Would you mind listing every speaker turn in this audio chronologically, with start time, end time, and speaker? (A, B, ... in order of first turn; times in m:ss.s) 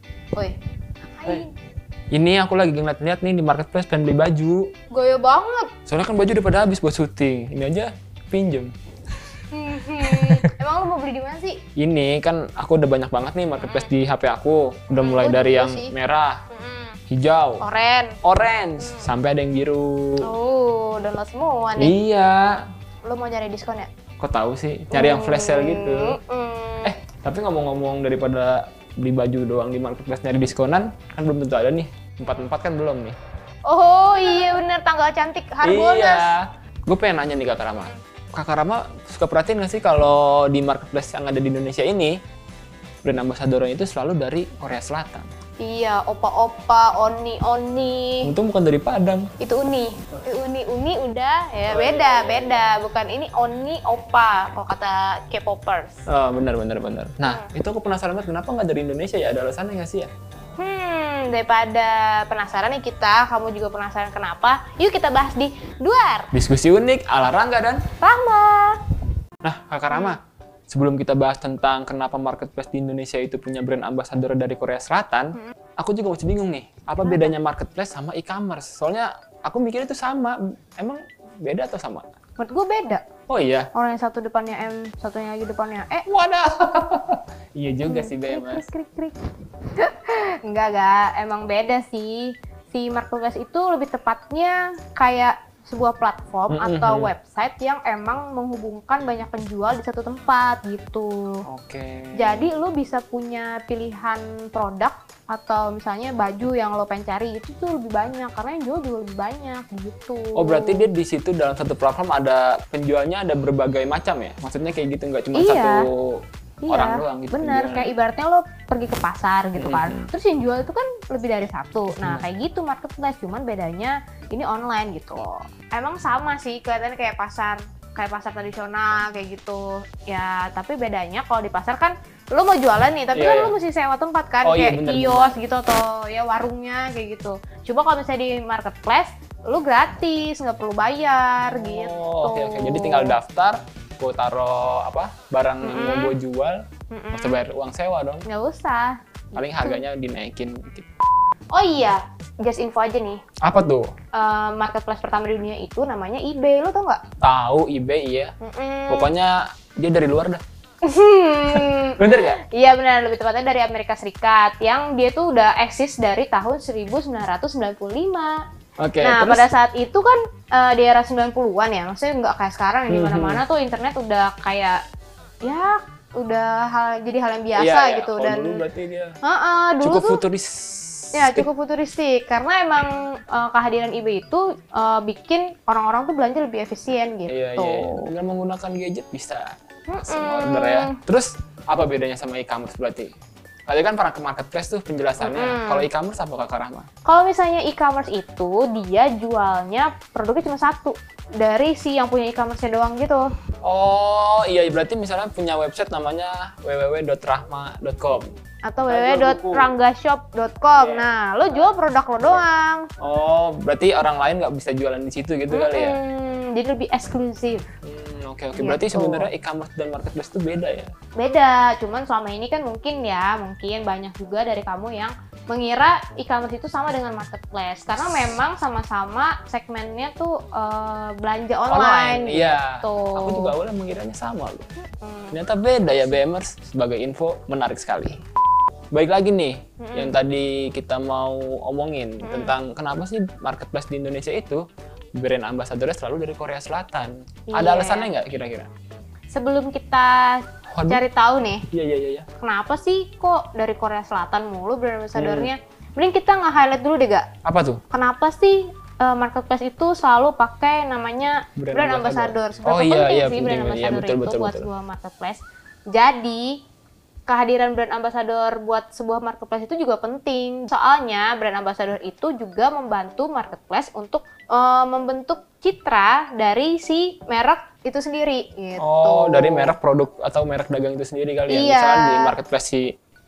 0:01.1-0:01.5 A
0:02.1-0:04.7 B
0:04.9-0:05.7 A
0:05.9-0:08.7 B
0:09.5-0:11.6 A
0:10.1-0:10.5 B
0:11.8-0:16.4 B
0:13.6-0:13.9 A
0:14.9-0:16.0 A
0:16.5-0:17.0 A
0:17.1-0:17.6 B
0:17.6-0:18.2 A
0:18.2-0:20.3 B
0:18.8-0:19.1 A
0:20.2-0:21.9 A
0:21.8-0:22.6 B
0:23.0-0:23.9 A
0:24.2-0:26.2 B
0:24.9-0:27.0 A
0:26.8-0:33.2 B
0:33.7-0:36.4 A
0:35.6-0:42.2 B
0:43.0-0:45.3 B
0:45.6-0:48.3 A
0:48.2-0:49.3 B
0:49.4-0:56.0 A
0:51.7-0:52.7 B
0:56.1-1:00.1 B
1:00.6-1:06.3 A
1:06.3-1:07.9 B
1:08.0-1:08.8 A
1:09.4-1:22.0 B
1:09.9-1:10.2 A
1:17.0-1:17.3 A
1:22.4-1:23.0 A
1:23.3-1:23.7 B
1:23.7-1:26.1 A
1:26.1-1:28.6 B
1:27.9-1:29.2 A
1:29.8-1:41.4 A
1:36.5-1:37.1 B
1:41.5-1:42.5 B
1:42.2-1:50.9 A
1:50.4-1:57.9 B
1:55.3-1:55.8 A
1:56.6-2:23.2 A
1:59.6-2:00.1 B
2:13.1-2:13.6 B
2:14.4-2:15.4 B
2:21.4-2:26.6 B
2:25.6-2:26.2 A
2:26.9-2:27.4 A
2:27.1-2:28.3 B
2:28.3-2:29.8 A
2:29.4-2:30.9 B
2:31.5-2:33.2 A
2:33.4-2:33.9 B
2:34.1-2:37.0 A
2:37.2-2:38.3 B
2:38.4-2:39.1 A
2:38.9-2:40.4 B
2:40.8-2:48.4 A
2:42.0-2:42.4 B
2:48.8-2:49.5 B
2:49.0-2:54.8 A
2:52.9-2:53.4 B
2:55.4-2:58.6 A
2:57.5-2:59.2 B
2:59.2-3:00.2 A
2:59.8-3:01.5 B
3:01.1-3:08.1 A
3:07.3-3:13.1 B
3:09.9-3:11.0 A
3:13.7-3:16.9 B
3:15.2-3:15.9 A
3:17.1-3:23.3 A
3:23.6-3:28.4 B
3:28.7-3:32.9 A
3:28.9-3:29.7 B
3:30.7-3:32.4 B
3:33.0-3:36.0 B
3:35.5-3:37.7 A
3:37.8-3:40.9 B
3:38.6-3:39.3 A
3:41.2-3:53.6 A
3:51.7-3:54.7 B
3:54.9-3:55.4 A
3:55.3-3:58.2 B
3:58.9-4:08.7 B
3:59.8-4:00.2 A
4:02.2-4:02.6 A
4:07.5-4:08.1 A
4:09.3-4:11.7 A
4:10.7-4:11.0 B
4:11.7-4:12.3 B
4:12.4-4:17.3 A
4:15.1-4:15.5 B
4:17.4-4:17.8 B
4:17.9-4:26.6 A
4:21.6-4:24.7 B
4:27.3-4:39.7 A
4:38.8-4:42.9 B
4:41.5-4:42.4 A